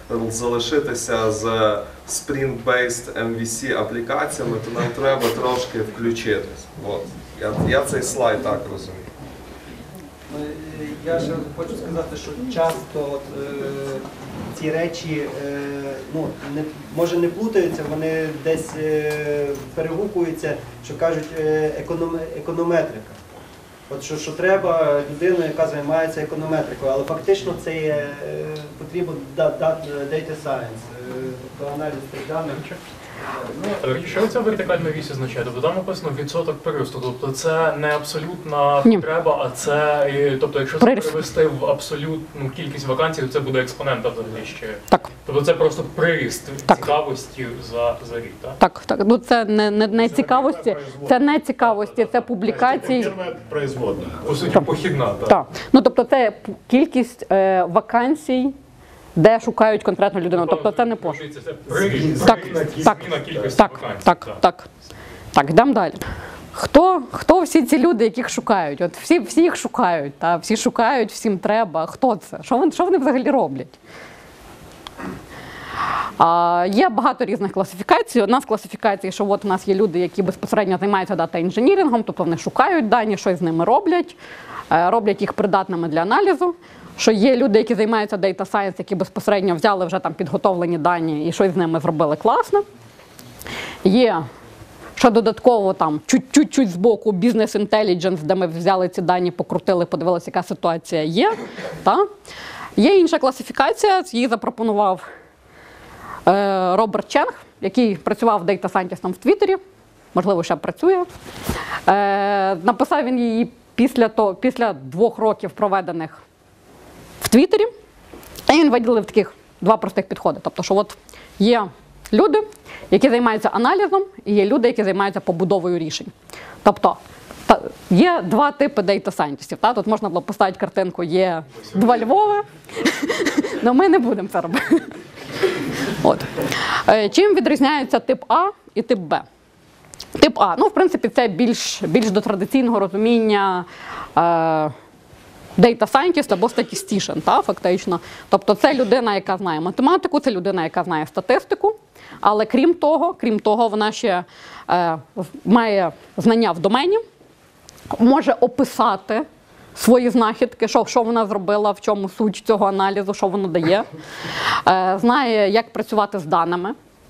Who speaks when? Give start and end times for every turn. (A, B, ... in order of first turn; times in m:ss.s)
0:00.8-0:08.9 A
0:10.3-0:23.1 B
0:23.9-0:34.3 B
0:33.8-0:48.6 C
0:40.8-0:41.2 D
0:46.7-0:46.9 D
0:48.6-0:53.2 D
0:50.4-0:50.9 E
0:52.6-0:54.5 E
0:54.2-0:55.4 C
0:55.3-0:58.6 D
0:59.2-1:01.2 D
1:00.4-1:04.4 C
1:02.1-1:04.7 D
1:05.3-1:06.0 D
1:06.5-1:13.7 D
1:16.2-1:24.2 D
1:24.7-1:32.6 D
1:33.8-1:34.2 D
1:35.0-1:42.1 D
1:42.8-1:45.0 D
1:46.2-1:49.6 D
1:50.1-1:51.1 D
1:51.9-1:56.2 D
1:57.2-1:57.7 D
1:58.5-2:15.0 D
2:16.0-2:19.2 D
2:20.2-2:24.7 D
2:25.6-2:37.0 D
2:37.9-2:43.9 D
2:44.6-2:46.8 D